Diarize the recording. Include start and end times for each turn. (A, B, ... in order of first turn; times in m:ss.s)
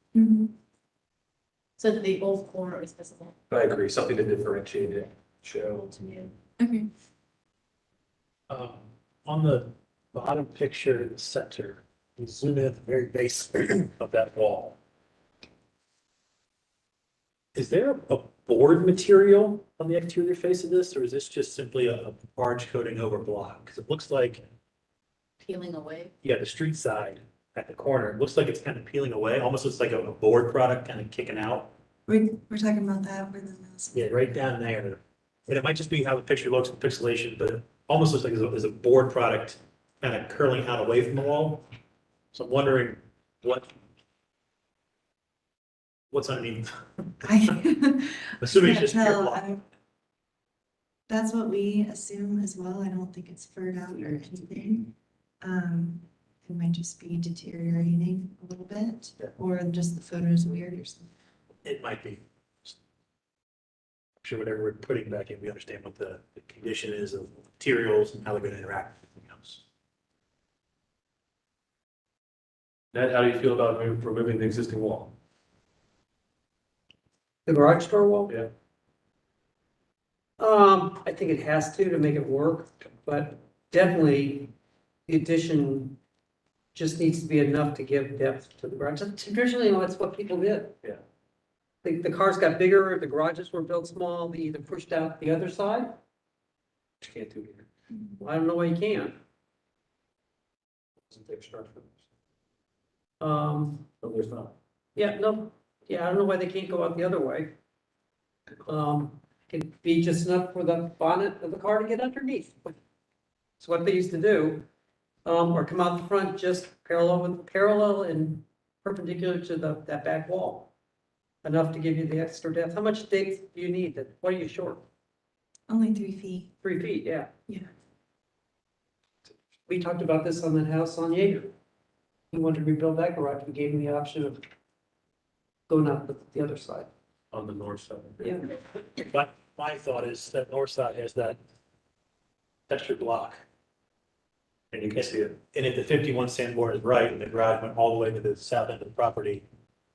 0:00.2-0:00.5 A
0:01.8-0:03.3 B
0:03.5-0:06.2 C
0:06.6-0:06.9 A
0:08.5-0:14.8 D
0:17.6-0:24.4 D
0:25.4-0:26.1 B
0:26.2-0:31.7 D
0:32.1-0:34.2 A
0:33.9-0:41.6 D
0:42.3-0:43.7 D
0:46.1-0:47.2 D
0:47.2-0:49.6 A
0:48.4-0:49.4 D
0:51.1-1:01.1 A
1:01.6-1:02.8 D
1:04.2-1:09.6 D
1:12.9-1:15.2 C
1:17.5-1:18.3 E
1:20.4-1:24.5 E
1:25.1-1:26.0 E
1:26.7-1:30.8 E
1:31.8-1:36.0 E
1:37.0-1:37.7 C
1:38.2-1:39.2 E
1:41.1-1:42.0 C
1:43.2-1:43.9 E
1:44.0-1:44.5 C
1:45.0-1:47.5 E
1:48.6-1:52.8 E
1:53.6-1:54.7 E
1:55.2-2:00.7 E
2:01.4-2:04.8 E
2:05.7-2:06.5 A
2:06.6-2:07.3 E
2:09.7-2:11.5 E
2:12.3-2:14.4 E
2:15.7-2:16.9 E
2:17.3-2:18.4 C
2:18.2-2:18.5 E
2:19.0-2:21.4 D
2:22.7-2:23.4 D
2:24.7-2:25.4 C
2:24.9-2:29.4 D